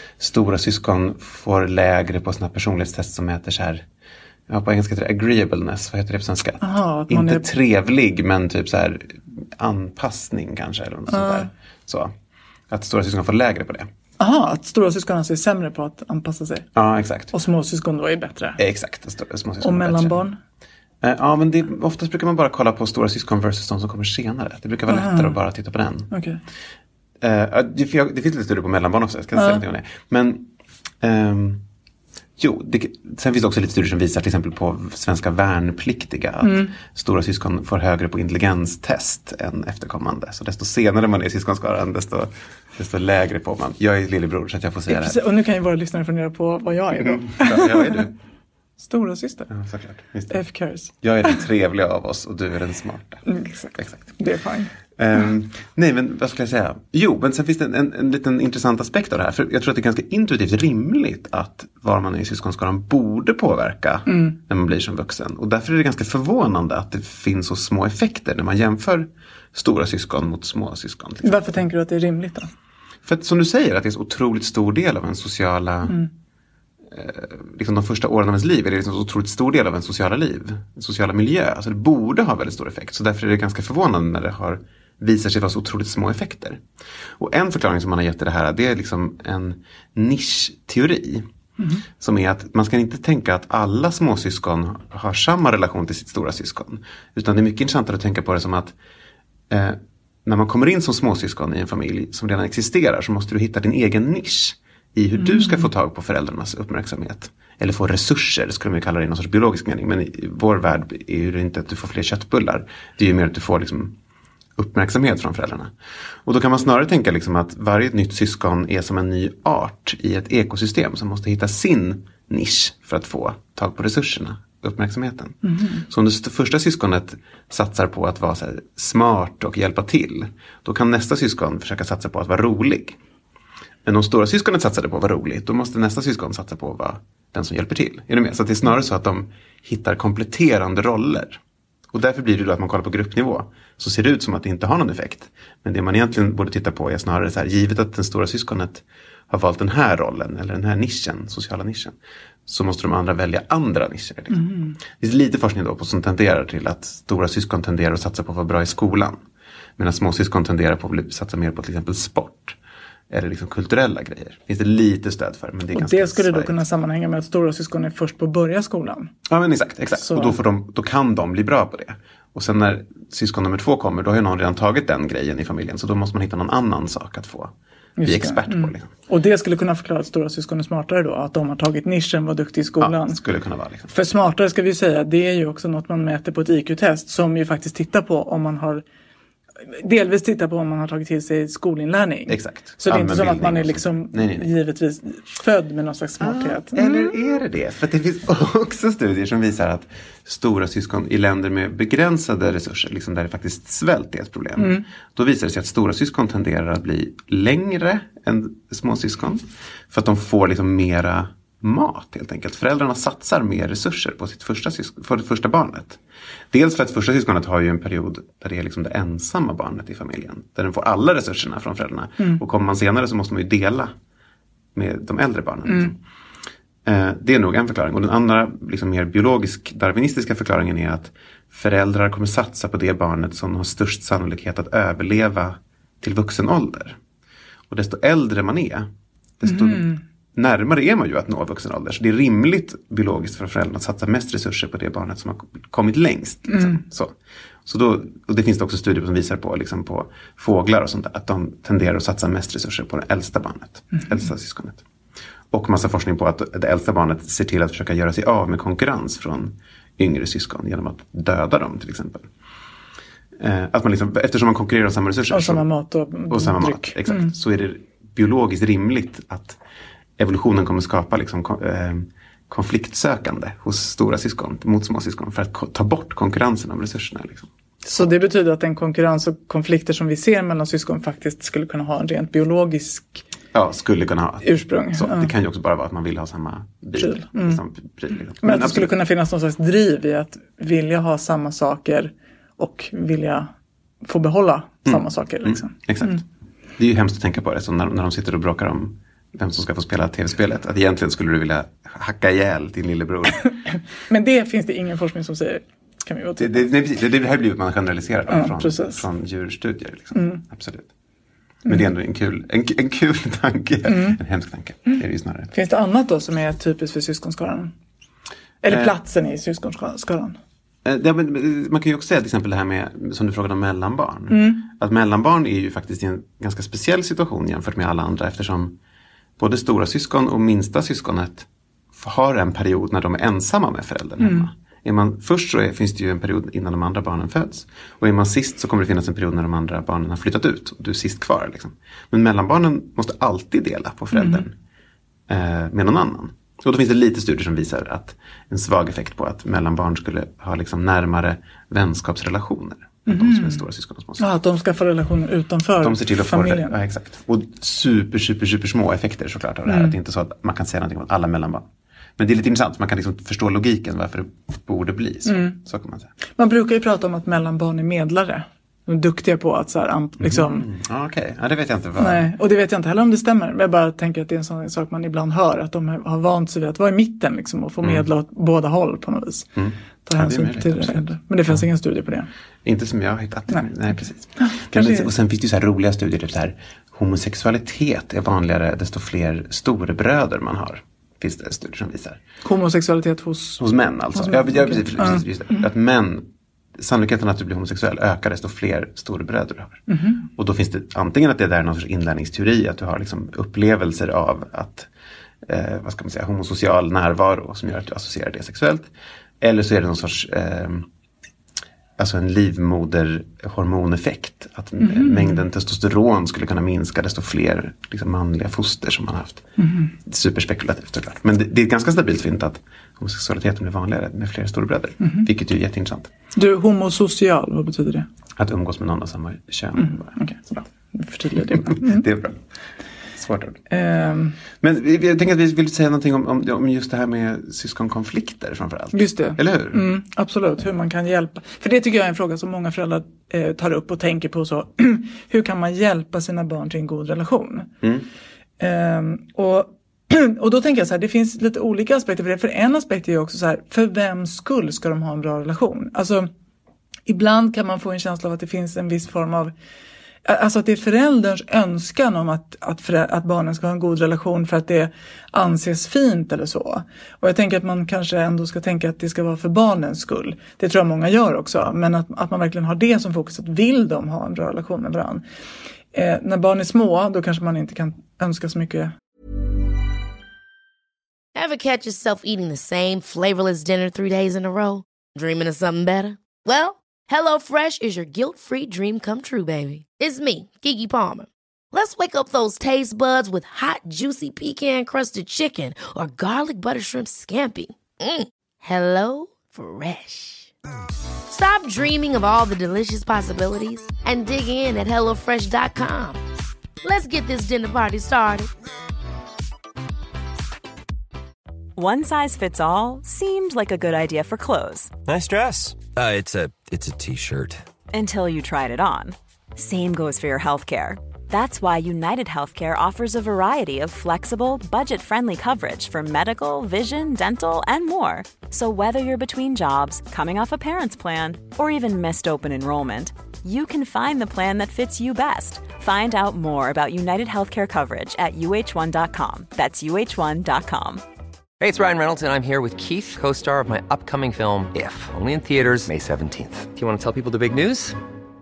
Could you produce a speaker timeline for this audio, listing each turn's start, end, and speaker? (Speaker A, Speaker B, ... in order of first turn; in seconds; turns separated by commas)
Speaker A: 0.2-3.9, Speaker A: 4.5-12.1, Speaker B: 6.6-7.5, Speaker B: 11.1-11.5, Speaker A: 12.7-13.9, Speaker B: 14.2-16.7, Speaker A: 16.8-17.4, Speaker B: 17.3-18.6, Speaker A: 18.6-20.2, Speaker B: 19.6-20.4, Speaker A: 21.0-26.1, Speaker B: 24.9-25.4, Speaker B: 26.1-26.4, Speaker A: 27.2-30.5, Speaker B: 29.4-29.6, Speaker A: 31.0-31.6, Speaker A: 32.4-45.2, Speaker B: 36.4-36.7, Speaker B: 44.9-48.1, Speaker A: 46.9-48.1, Speaker B: 48.8-49.5, Speaker A: 49.5-50.4, Speaker B: 50.3-51.4, Speaker A: 51.0-54.0, Speaker B: 53.3-54.7, Speaker A: 55.0-71.6, Speaker B: 64.1-64.4, Speaker B: 71.2-72.5, Speaker A: 73.0-76.0, Speaker A: 76.9-86.6, Speaker A: 87.2-91.3, Speaker A: 92.0-98.8, Speaker A: 99.5-114.0, Speaker B: 105.2-105.7, Speaker A: 114.6-115.7, Speaker A: 116.2-133.0, Speaker B: 125.4-125.8, Speaker A: 133.8-159.2, Speaker B: 154.3-154.8, Speaker A: 159.8-162.6, Speaker A: 163.1-166.6, Speaker B: 165.7-169.1, Speaker A: 169.3-178.9, Speaker B: 170.0-170.3, Speaker B: 178.0-183.2, Speaker A: 182.8-183.9, Speaker B: 183.9-188.8, Speaker B: 189.7-197.1, Speaker A: 192.3-194.5, Speaker A: 196.2-216.0, Speaker B: 204.6-204.8, Speaker A: 216.5-223.9, Speaker A: 224.8-226.0, Speaker B: 225.7-225.9, Speaker A: 226.8-237.0, Speaker A: 237.7-254.8, Speaker B: 239.4-240.0, Speaker B: 246.5-246.8, Speaker A: 255.5-262.3, Speaker A: 263.4-265.7, Speaker B: 265.3-267.3, Speaker A: 266.3-269.6, Speaker A: 270.2-278.0, Speaker B: 277.9-283.2, Speaker A: 283.5-288.9, Speaker B: 284.4-285.3, Speaker B: 287.0-287.6, Speaker B: 288.4-293.5, Speaker B: 294.1-296.2, Speaker A: 294.9-296.2, Speaker A: 296.8-303.5, Speaker B: 303.4-306.7, Speaker A: 306.4-310.9, Speaker B: 308.3-309.0, Speaker B: 310.1-310.4, Speaker A: 311.7-315.5, Speaker B: 313.9-314.2, Speaker B: 315.5-317.7, Speaker B: 318.6-320.4, Speaker A: 318.7-318.9, Speaker A: 320.9-328.8, Speaker B: 324.3-324.7, Speaker A: 329.4-344.6, Speaker B: 334.2-334.5, Speaker B: 344.1-344.4, Speaker A: 345.3-354.3, Speaker B: 353.1-353.6, Speaker B: 354.2-356.7, Speaker A: 355.8-361.7, Speaker B: 359.7-359.9, Speaker A: 362.2-366.1, Speaker B: 365.2-365.6, Speaker B: 366.4-370.7, Speaker A: 370.2-372.3, Speaker B: 372.0-379.5, Speaker A: 379.6-381.6, Speaker B: 380.1-382.3, Speaker A: 382.6-392.2, Speaker B: 384.4-385.1, Speaker B: 392.4-395.3, Speaker A: 393.6-404.9, Speaker B: 399.9-400.2, Speaker A: 405.4-410.9, Speaker A: 412.0-419.4, Speaker B: 414.8-415.4, Speaker B: 419.6-419.9, Speaker A: 420.0-426.1, Speaker B: 425.0-425.3, Speaker B: 426.4-428.1, Speaker A: 428.4-430.2, Speaker B: 429.8-432.0, Speaker A: 431.4-432.4, Speaker A: 433.2-433.6, Speaker B: 433.7-434.4, Speaker A: 434.6-439.9, Speaker B: 438.9-447.7, Speaker B: 448.6-456.3, Speaker B: 457.1-459.5, Speaker B: 460.2-475.2, Speaker B: 475.9-478.9, Speaker C: 481.4-500.5, Speaker C: 501.3-506.2, Speaker C: 506.8-508.5, Speaker D: 511.8-514.9, Speaker E: 515.1-517.6, Speaker D: 517.9-541.0, Speaker E: 541.6-548.0